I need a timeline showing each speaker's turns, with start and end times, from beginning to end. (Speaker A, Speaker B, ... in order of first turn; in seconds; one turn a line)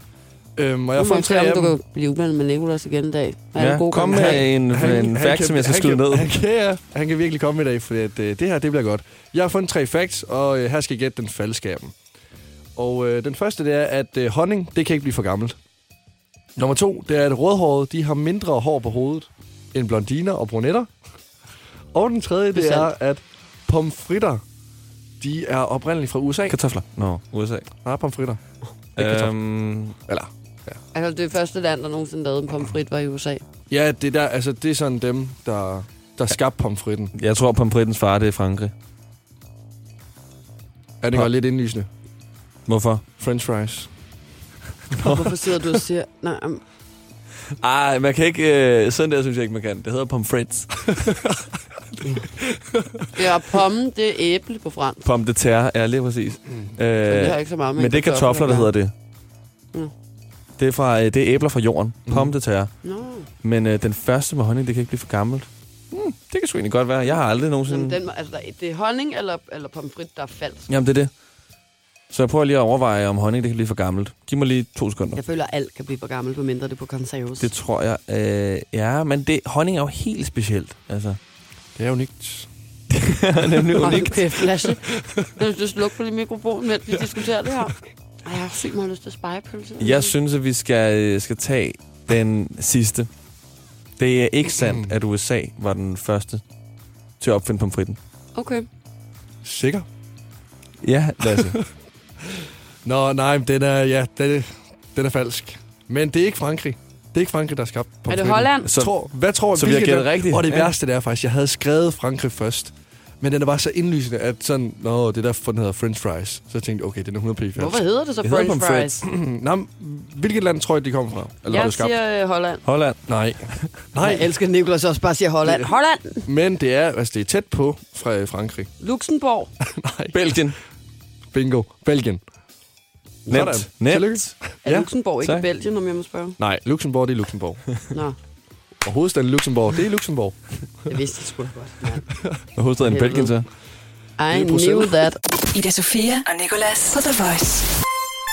Speaker A: 0.5-1.8
Speaker B: 0.9-4.6
Speaker C: 3.5-6.4
Speaker A: 4.1-15.6
Speaker A: 16.5-21.4
Speaker A: 21.9-24.4
Speaker B: 22.5-22.9
Speaker A: 25.2-26.7
Speaker C: 26.5-27.7
Speaker A: 27.7-30.8
Speaker C: 28.9-30.1
Speaker B: 30.9-33.4
Speaker A: 33.7-37.1
Speaker C: 37.1-38.7
Speaker A: 41.0-41.9
Speaker C: 42.6-43.0
Speaker A: 43.2-44.0
Speaker A: 44.9-45.3
Speaker B: 45.0-46.6
Speaker C: 47.6-51.1
Speaker B: 53.1-55.0
Speaker C: 55.0-58.9
Speaker A: 56.5-56.7
Speaker B: 57.0-59.0
Speaker C: 60.6-68.0
Speaker A: 62.0-62.4
Speaker B: 62.8-63.3
Speaker B: 67.0-70.7
Speaker C: 70.7-71.2
Speaker C: 72.1-75.2
Speaker B: 75.1-77.5
Speaker C: 77.4-81.2
Speaker A: 81.7-82.6
Speaker C: 83.1-84.4
Speaker B: 83.8-90.1
Speaker A: 84.8-85.2
Speaker C: 89.8-93.3
Speaker C: 94.0-96.6
Speaker A: 94.6-94.9
Speaker C: 97.1-98.0
Speaker B: 98.3-98.7
Speaker A: 99.4-99.9
Speaker C: 100.8-101.8
Speaker A: 101.2-101.8
Speaker A: 102.8-117.8
Speaker B: 108.1-108.7
Speaker C: 108.6-110.7
Speaker B: 117.5-119.0
Speaker C: 118.2-119.0
Speaker A: 119.0-122.0
Speaker B: 121.5-122.6
Speaker C: 122.6-123.8
Speaker A: 123.1-124.3
Speaker B: 124.0-126.3
Speaker A: 125.4-125.7
Speaker A: 126.2-128.8
Speaker B: 128.8-129.5
Speaker A: 129.6-130.7
Speaker C: 130.1-130.6
Speaker A: 131.3-132.3
Speaker B: 133.2-133.9
Speaker C: 133.3-134.5
Speaker A: 133.3-134.9
Speaker B: 134.6-136.4
Speaker C: 135.2-135.4
Speaker A: 136.4-137.9
Speaker B: 137.9-138.2
Speaker A: 138.8-140.9
Speaker B: 140.9-145.2
Speaker C: 142.5-143.6
Speaker A: 144.3-145.1
Speaker D: 145.3-147.7